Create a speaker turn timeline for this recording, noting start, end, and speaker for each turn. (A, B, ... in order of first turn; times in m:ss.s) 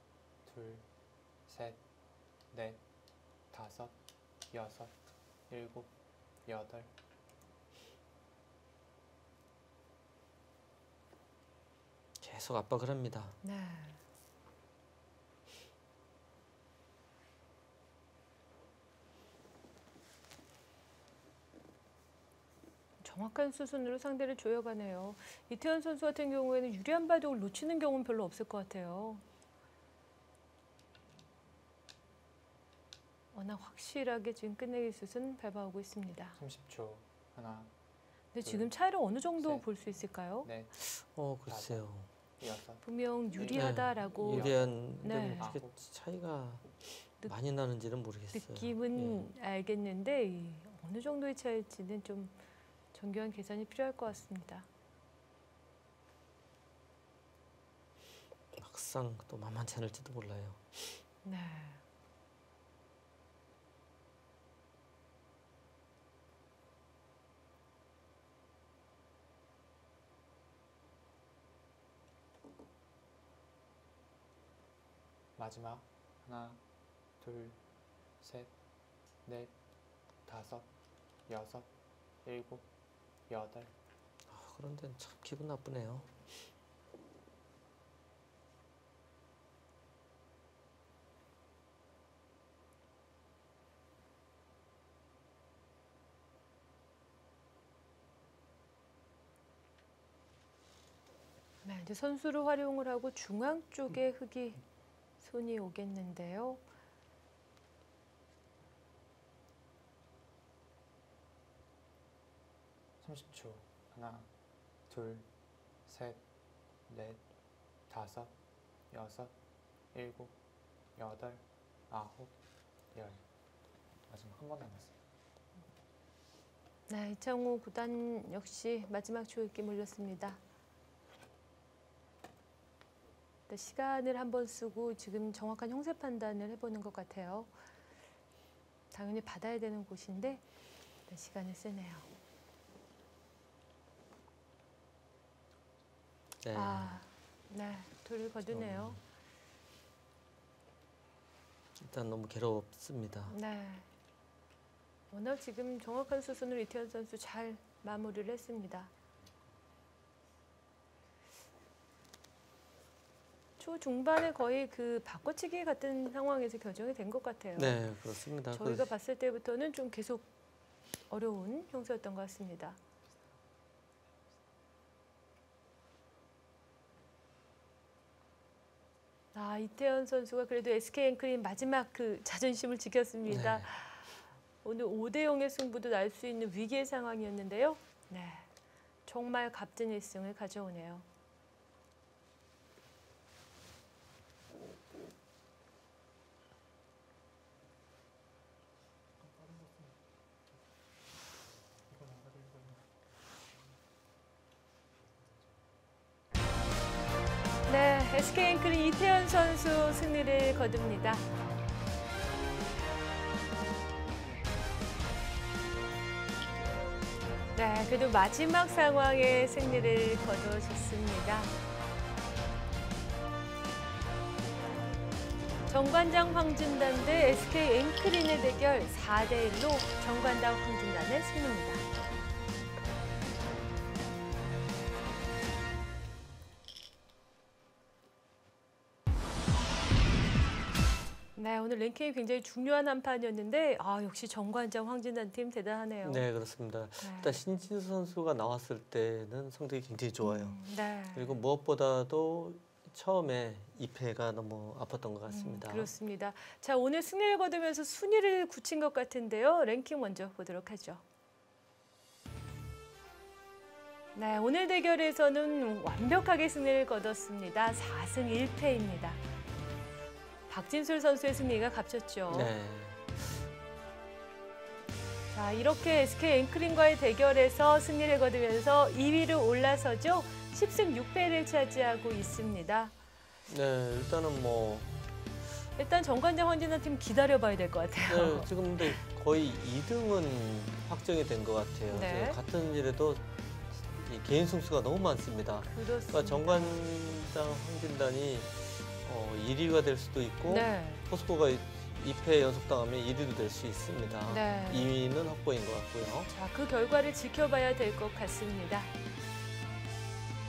0:00.4-0:00.9 A
0:01.5-0:01.8 A
0:02.5-0:02.8 A
0:03.5-0:04.0 A
0:04.5-0:05.0 A
0:05.5-0:05.9 A
0:06.5-0:06.9 A
0:12.2-0:13.4 B
0:13.4-0:14.0 C
0:23.0-0:29.2 C
0:33.3-0:36.4 C
0:36.4-0:37.7 A
0:38.3-0:40.5 C
0:38.4-0:38.7 A
0:39.4-0:39.7 A
0:40.4-0:40.8 A
0:40.8-0:42.1 B
0:41.5-0:41.9 A
0:42.4-0:45.8 A
0:42.8-0:45.6 C
0:43.5-0:46.7 B
0:47.2-0:49.3 B
0:48.3-0:52.4 C
0:52.9-0:54.7 C
0:58.5-1:00.6 B
1:01.2-1:01.8 C
1:15.4-1:16.6 A
1:17.2-1:17.6 A
1:18.2-1:18.5 A
1:19.3-1:19.5 A
1:20.2-1:20.7 A
1:21.3-1:21.7 A
1:22.2-1:22.7 A
1:23.3-1:23.7 A
1:24.3-1:26.1 B
1:41.6-1:44.6 C
1:45.2-1:46.6 C
1:53.0-1:54.3 A
1:54.9-1:55.3 A
1:55.8-1:56.2 A
1:56.9-1:57.2 A
1:57.9-1:58.3 A
1:58.9-1:59.3 A
1:59.9-2:00.4 A
2:01.0-2:02.3 A
2:02.9-2:03.2 A
2:04.1-2:05.0 A
2:06.9-2:10.4 C
2:13.5-2:17.5 C
2:18.9-2:20.4 C
2:21.1-2:22.1 C
2:26.4-2:27.0 B
2:26.5-2:29.0 C
2:28.5-2:29.0 B
2:31.8-2:33.4 B
2:33.3-2:33.9 C
2:35.1-2:38.9 C
2:43.6-2:47.8 C
2:47.6-2:48.9 B
2:48.5-2:50.3 C
2:51.1-2:52.8 C
2:59.3-3:08.5 C
3:03.3-3:03.7 B
3:09.1-3:11.1 C
3:21.9-3:22.8 A
3:27.7-3:31.3 C
3:37.6-3:41.5 C
3:45.7-3:51.9 C
4:01.4-4:06.2 C
4:06.0-4:10.6 B
4:07.0-4:07.4 C
4:10.2-4:11.4 C
4:11.1-4:15.9 B
4:15.3-4:21.0 C
4:24.2-4:29.2 C
4:30.5-4:32.5 C
4:32.3-4:33.4 B
4:35.3-4:42.9 C
4:43.5-4:45.3 B
4:45.8-4:49.0 C
4:48.1-5:06.3 B
4:51.9-4:52.4 C
4:55.6-4:56.9 C
5:00.5-5:01.0 C
5:04.3-5:04.9 C
5:06.3-5:08.9 C